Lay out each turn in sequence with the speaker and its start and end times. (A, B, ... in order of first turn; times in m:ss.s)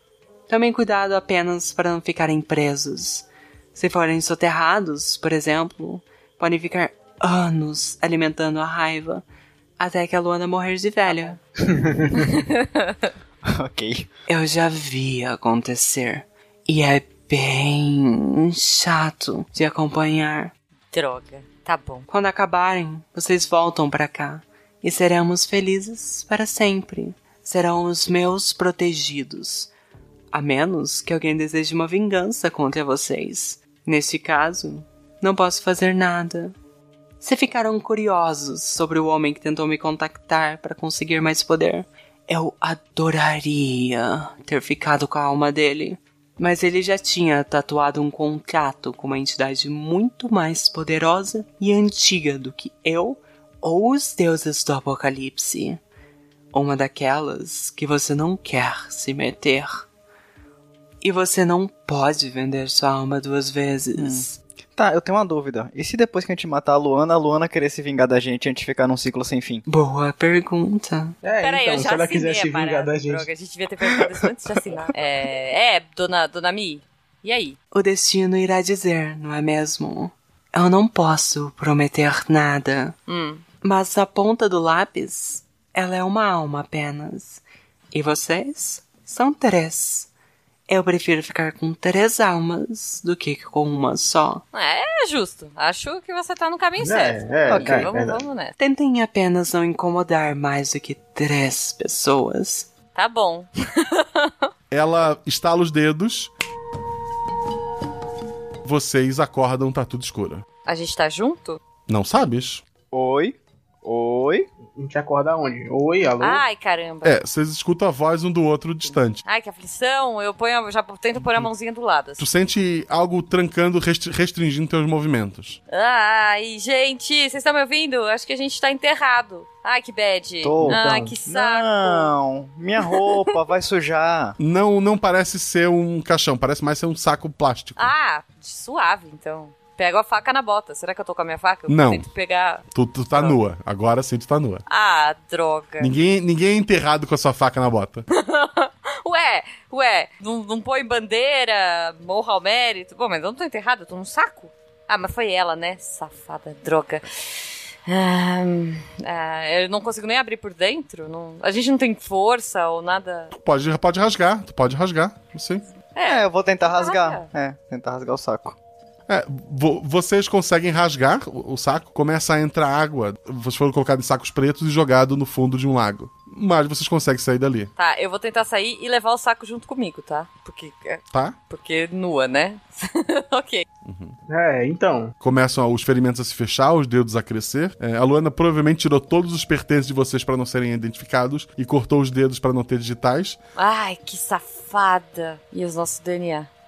0:00.5-0:09.2 A
0:09.8-0:11.4 A
0:11.1-0:11.3 B
0:11.7-0:12.2 C
0:12.1-0:12.9 B
0:13.4-0:14.1 D
0:14.3-0:20.5 A
0:20.9-0:22.1 B
0:22.1-0:29.7 A
0:30.3-0:36.5 A
0:37.2-0:55.8 A
0:56.5-0:59.8 A
1:01.0-1:04.4 A
1:04.0-1:04.2 D
1:04.8-1:09.6 D
1:09.7-1:11.2 A
1:11.2-1:13.3 C
1:11.4-1:17.6 B
1:17.7-1:23.0 A
1:23.1-1:23.4 B
1:23.6-1:27.4 A
1:27.9-1:30.1 A
1:30.7-1:34.4 A
1:34.5-1:38.5 B
1:36.8-1:38.2 C
1:37.5-1:37.9 D
1:38.6-1:42.7 A
1:42.9-1:44.3 B
1:44.7-1:46.3 E
1:48.6-1:50.4 E
1:50.6-1:51.6 B
1:51.9-1:52.6 E
1:52.9-1:54.5 D
1:54.8-1:56.4 C
1:56.2-1:57.2 B
1:57.0-1:59.2 E
1:58.8-2:02.2 B
2:02.2-2:05.6 E
2:05.7-2:12.1 B
2:10.4-2:14.4 D
2:10.6-2:11.1 C
2:14.4-2:17.9 E
2:17.8-2:23.4 B
2:21.7-2:22.0 E
2:22.7-2:24.6 E
2:24.7-2:25.9 B
2:25.8-2:28.0 E
2:28.1-2:43.3 B
2:43.3-2:45.6 E
2:45.9-2:47.3 B
2:46.0-2:48.6 D
2:49.1-2:57.7 E
2:57.8-3:03.6 B
3:03.8-3:04.2 E
3:04.3-3:05.1 C
3:05.2-3:13.4 E
3:13.6-3:16.5 B